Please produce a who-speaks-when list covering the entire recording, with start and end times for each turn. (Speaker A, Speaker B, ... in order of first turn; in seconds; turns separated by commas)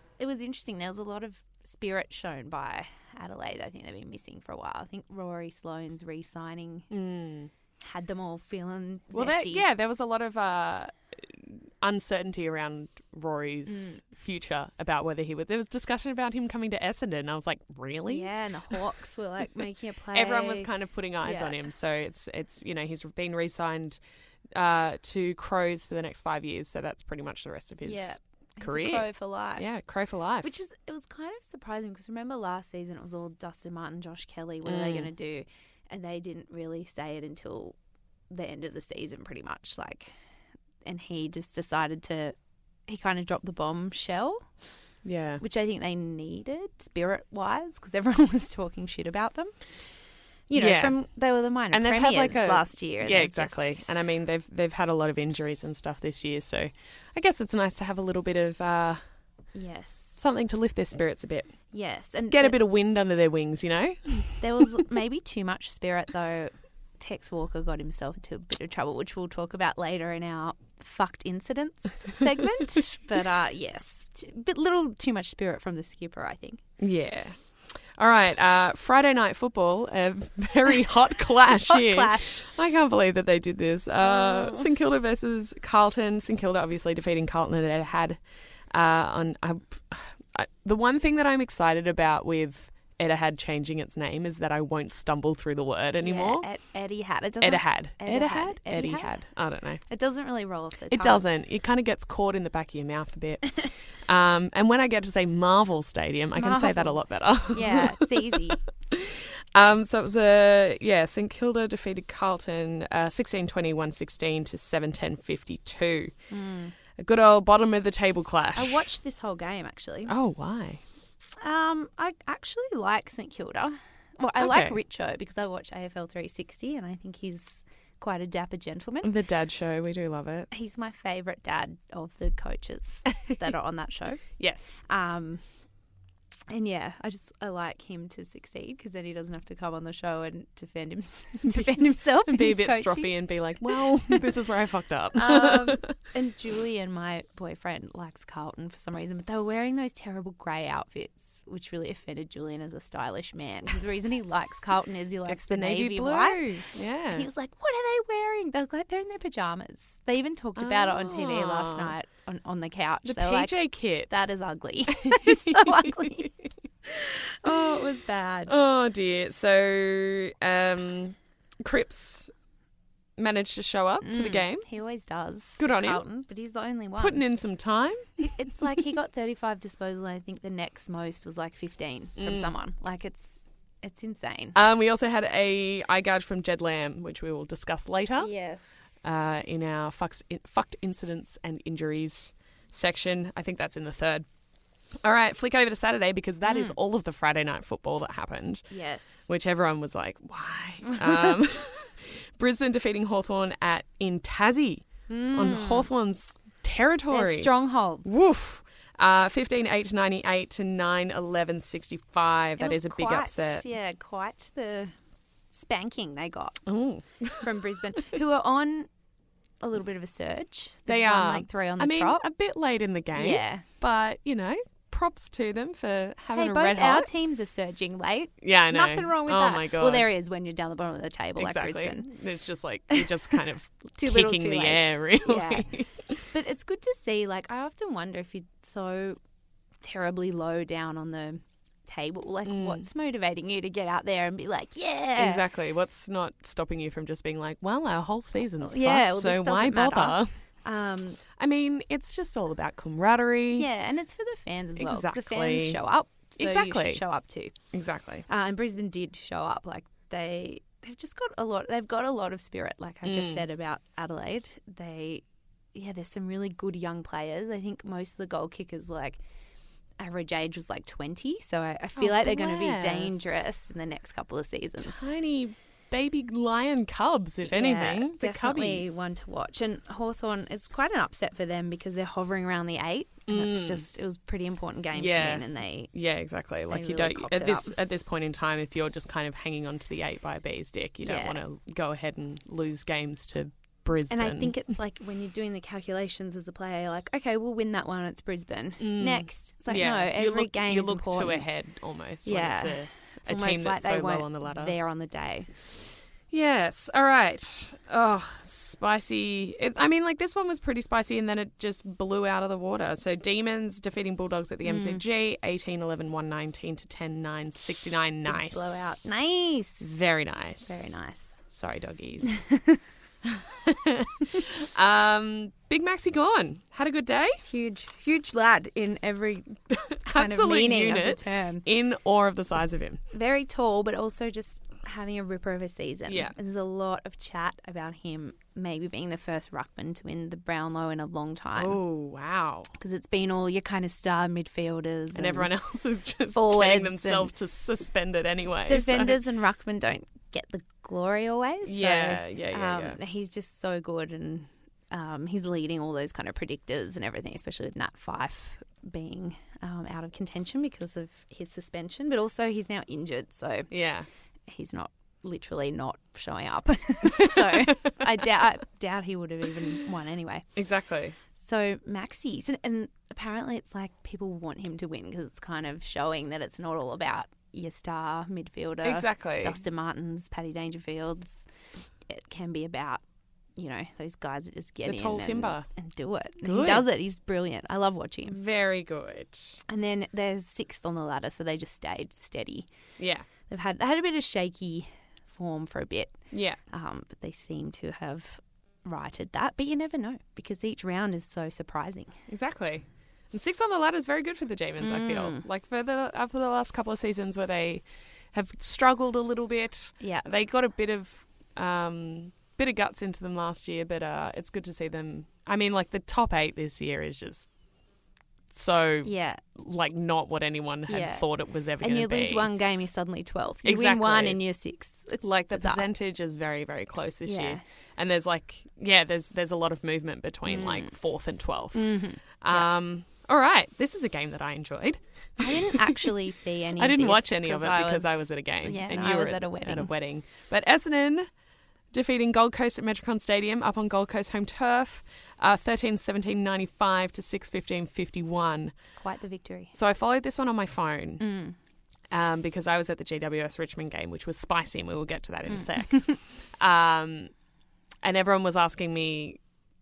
Speaker A: 0.2-6.9, Speaker B: 6.9-7.5, Speaker A: 7.8-9.7, Speaker B: 9.1-18.8, Speaker A: 13.7-14.0, Speaker A: 18.1-20.7, Speaker B: 20.1-24.0, Speaker A: 21.2-21.6, Speaker B: 24.5-30.5, Speaker A: 27.8-29.7, Speaker A: 30.4-37.8, Speaker B: 34.6-35.1, Speaker A: 38.3-40.1, Speaker A: 40.8-42.4, Speaker A: 42.9-44.5, Speaker B: 45.0-45.4, Speaker A: 45.4-49.5, Speaker A: 50.5-54.0, Speaker B: 50.6-51.0, Speaker B: 51.7-59.0, Speaker A: 59.5-60.2, Speaker B: 60.2-61.5, Speaker A: 61.7-62.6, Speaker B: 62.3-64.7, Speaker A: 64.4-76.6, Speaker B: 76.8-88.2, Speaker A: 81.7-82.5, Speaker A: 84.0-84.7, Speaker B: 88.7-96.5, Speaker A: 96.0-99.2, Speaker B: 97.4-99.8, Speaker A: 99.8-101.3, Speaker B: 100.9-116.1, Speaker A: 106.4-108.6, Speaker A: 116.3-116.7, Speaker B: 117.0-118.8, Speaker A: 118.5-120.1, Speaker B: 120.1-120.8, Speaker A: 121.4-129.1, Speaker B: 124.4-124.8, Speaker B: 129.0-130.5, Speaker A: 130.5-134.2, Speaker B: 134.4-134.8, Speaker A: 134.8-135.4, Speaker A: 136.5-143.1, Speaker B: 142.3-145.9, Speaker A: 143.8-144.3, Speaker A: 145.1-156.6, Speaker B: 155.3-157.3, Speaker A: 157.1-166.3, Speaker B: 160.6-161.9, Speaker B: 163.1-164.1, Speaker B: 164.9-166.3, Speaker A: 166.8-168.6, Speaker B: 167.4-167.8, Speaker B: 168.5-172.3, Speaker B: 173.2-174.7, Speaker A: 174.0-177.2, Speaker B: 175.6-176.0, Speaker B: 177.0-178.4, Speaker A: 178.2-184.6, Speaker B: 182.2-182.5, Speaker B: 184.6-188.3, Speaker A: 188.2-189.0, Speaker B: 189.0-194.3, Speaker B: 195.0-198.7, Speaker A: 196.4-196.8, Speaker A: 198.7-199.3, Speaker B: 199.3-207.5, Speaker A: 200.9-201.4, Speaker A: 205.1-205.9, Speaker A: 207.1-208.1, Speaker B: 208.0-213.7, Speaker A: 212.6-214.9, Speaker A: 215.5-216.6, Speaker B: 216.7-217.5, Speaker A: 217.4-218.9, Speaker A: 219.6-222.3, Speaker B: 220.9-227.1, Speaker A: 223.1-223.6, Speaker A: 226.3-232.1, Speaker B: 228.4-230.1, Speaker B: 231.4-236.2, Speaker A: 232.9-233.4, Speaker A: 233.9-235.7, Speaker A: 236.3-239.2, Speaker A: 239.8-245.4, Speaker B: 242.4-242.8, Speaker B: 245.2-250.3, Speaker A: 248.6-251.2, Speaker B: 251.4-253.7, Speaker A: 253.6-257.5, Speaker B: 254.8-255.8, Speaker B: 256.4-257.0, Speaker B: 257.7-258.2, Speaker A: 258.3-269.2, Speaker B: 263.0-263.4, Speaker A: 270.0-275.1, Speaker B: 272.0-273.5, Speaker B: 274.8-278.9, Speaker A: 277.4-285.9, Speaker B: 283.3-283.9, Speaker B: 284.9-294.6, Speaker A: 286.7-287.8, Speaker A: 291.0-291.4, Speaker A: 294.1-301.5, Speaker B: 298.8-304.7, Speaker A: 302.2-305.5, Speaker B: 306.3-319.2, Speaker A: 314.6-315.0, Speaker A: 318.3-319.9, Speaker B: 319.8-322.4, Speaker A: 320.7-321.4, Speaker A: 322.3-322.8, Speaker B: 323.4-327.4, Speaker A: 327.4-331.6, Speaker B: 329.7-333.0, Speaker A: 333.1-341.8, Speaker B: 336.1-336.3, Speaker B: 341.6-342.7, Speaker A: 342.8-345.5, Speaker B: 345.1-349.2, Speaker A: 346.3-347.3, Speaker A: 348.7-363.7, Speaker B: 351.7-353.0, Speaker B: 363.7-364.1, Speaker A: 364.5-370.5, Speaker B: 367.1-368.0, Speaker B: 370.6-371.2, Speaker A: 371.4-381.5, Speaker B: 378.8-379.6, Speaker A: 382.1-383.0, Speaker A: 383.6-388.4, Speaker B: 384.9-385.7, Speaker B: 386.4-386.9, Speaker B: 388.2-389.6, Speaker A: 389.7-392.7, Speaker B: 393.0-393.3, Speaker A: 393.5-396.2, Speaker B: 396.3-396.6, Speaker A: 396.7-402.1, Speaker B: 402.3-417.5, Speaker A: 404.8-405.4, Speaker A: 410.0-410.3, Speaker B: 418.5-422.5, Speaker A: 419.0-419.4, Speaker A: 420.9-425.9, Speaker B: 423.6-424.4, Speaker B: 425.2-431.9, Speaker A: 427.3-427.6, Speaker A: 430.4-430.9, Speaker A: 431.7-432.7, Speaker B: 432.4-436.1, Speaker A: 435.4-439.9, Speaker B: 436.8-441.3, Speaker B: 441.9-448.8, Speaker A: 449.0-449.7, Speaker B: 449.7-451.3, Speaker A: 451.2-451.6, Speaker B: 452.1-457.3, Speaker A: 455.5-456.2, Speaker B: 458.0-459.4